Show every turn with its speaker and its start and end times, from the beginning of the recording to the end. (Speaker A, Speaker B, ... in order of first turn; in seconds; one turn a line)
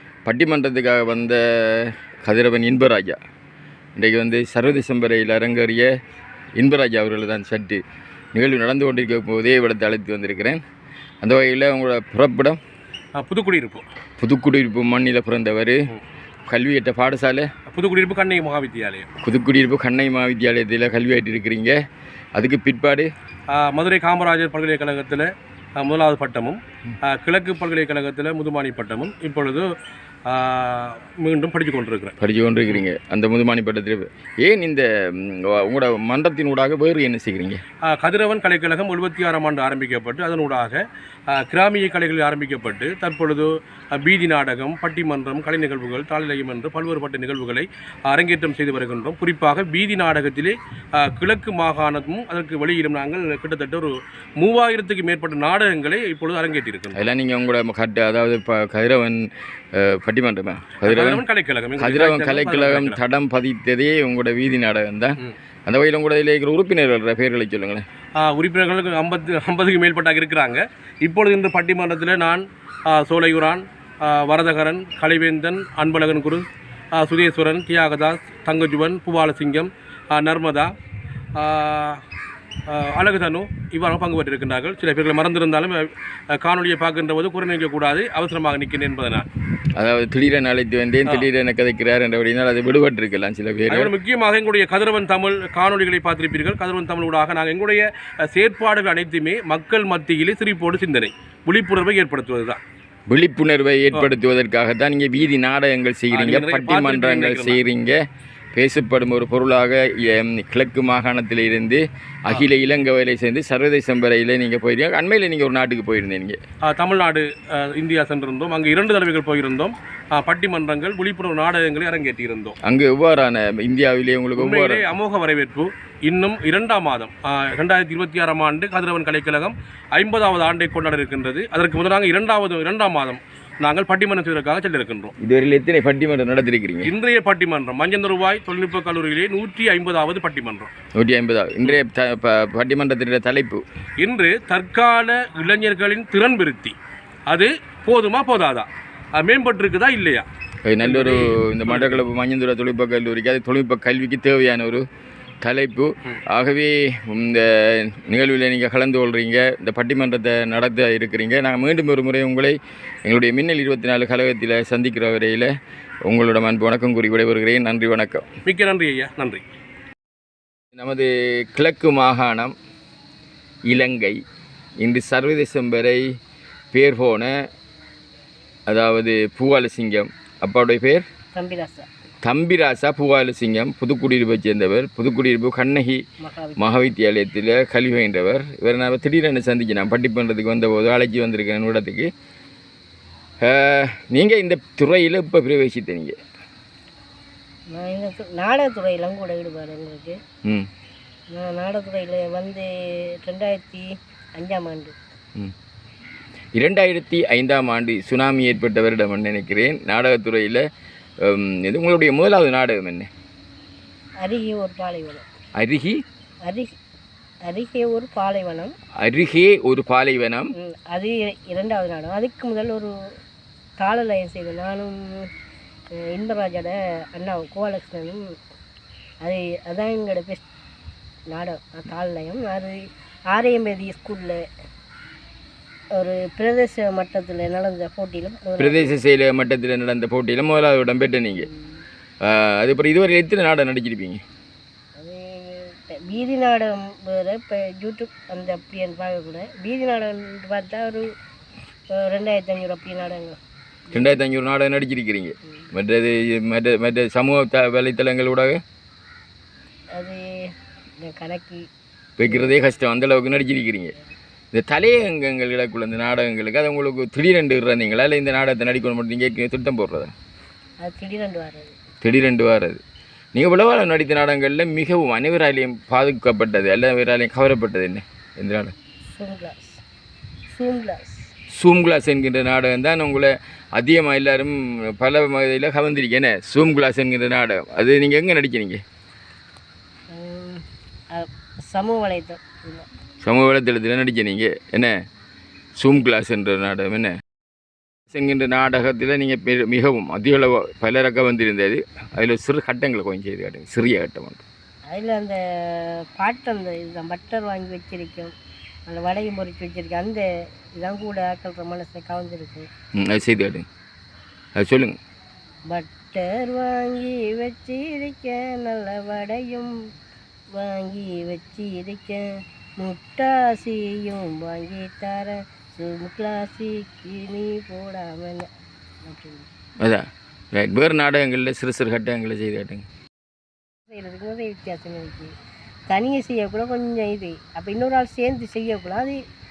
Speaker A: 0.2-3.2
Speaker A: 4.0-5.9
Speaker A: 6.6-7.8
Speaker A: 8.3-10.6
Speaker A: 11.2-12.6
Speaker B: 13.2-13.8
Speaker A: 14.2-15.8
Speaker A: 16.5-17.5
Speaker B: 17.7-19.1
Speaker A: 19.2-21.7
Speaker A: 22.4-23.1
Speaker B: 23.5-29.6
Speaker B: 30.2-32.1
Speaker A: 32.2-37.6
Speaker B: 37.9-40.8
Speaker B: 41.3-57.0
Speaker A: 56.9-61.2
Speaker B: 60.8-63.0
Speaker A: 61.8-67.8
Speaker B: 68.2-80.7
Speaker B: 81.3-82.0
Speaker B: 82.7-89.2
Speaker A: 89.8-93.9
Speaker B: 93.7-102.6
Speaker A: 103.1-108.0
Speaker B: 106.1-107.6
Speaker A: 108.5-116.4
Speaker B: 116.7-122.6
Speaker A: 122.6-124.9
Speaker B: 124.4-135.1
Speaker A: 135.2-136.9
Speaker B: 136.8-140.7
Speaker A: 140.9-143.6
Speaker B: 144.0-146.8
Speaker B: 147.3-150.3
Speaker A: 150.7-154.8
Speaker B: 150.8-152.0
Speaker A: 155.4-165.5
Speaker A: 166.1-168.3
Speaker B: 168.4-169.4
Speaker A: 170.7-172.5
Speaker A: 173.7-174.2
Speaker A: 174.8-176.0
Speaker A: 176.7-177.3
Speaker A: 178.7-181.0
Speaker C: 181.3-181.9
Speaker A: 182.2-186.0
Speaker C: 186.2-186.6
Speaker A: 186.6-192.1
Speaker A: 193.4-196.2
Speaker C: 197.7-200.2
Speaker C: 201.3-204.9
Speaker A: 206.6-210.6
Speaker A: 211.2-213.1
Speaker C: 214.2-215.2
Speaker A: 215.6-216.0
Speaker C: 216.5-216.7
Speaker C: 217.4-218.7
Speaker A: 219.0-220.5
Speaker C: 220.6-222.9
Speaker C: 223.8-225.3
Speaker C: 226.0-228.3
Speaker C: 229.2-230.4
Speaker C: 231.3-234.4
Speaker C: 235.9-238.9
Speaker A: 238.6-241.5
Speaker A: 242.2-244.2
Speaker C: 245.0-251.1
Speaker C: 251.9-253.4
Speaker C: 253.9-254.2
Speaker A: 253.9-258.6
Speaker C: 259.9-261.6
Speaker A: 262.2-263.9
Speaker C: 262.2-262.5
Speaker A: 264.5-270.1
Speaker C: 270.8-271.8
Speaker A: 272.0-272.8
Speaker A: 273.3-278.7
Speaker C: 279.1-279.8
Speaker C: 280.5-281.3
Speaker A: 281.5-288.8
Speaker C: 290.1-292.9
Speaker A: 293.2-294.9
Speaker A: 295.8-297.1
Speaker A: 298.1-304.4
Speaker C: 304.9-308.3
Speaker C: 308.9-310.2
Speaker C: 310.8-312.7
Speaker A: 312.9-313.6
Speaker A: 314.6-315.0
Speaker C: 315.7-319.7
Speaker C: 320.5-322.2
Speaker C: 322.8-328.5
Speaker C: 329.0-329.5
Speaker A: 329.8-332.9
Speaker C: 333.9-335.3
Speaker C: 335.9-339.2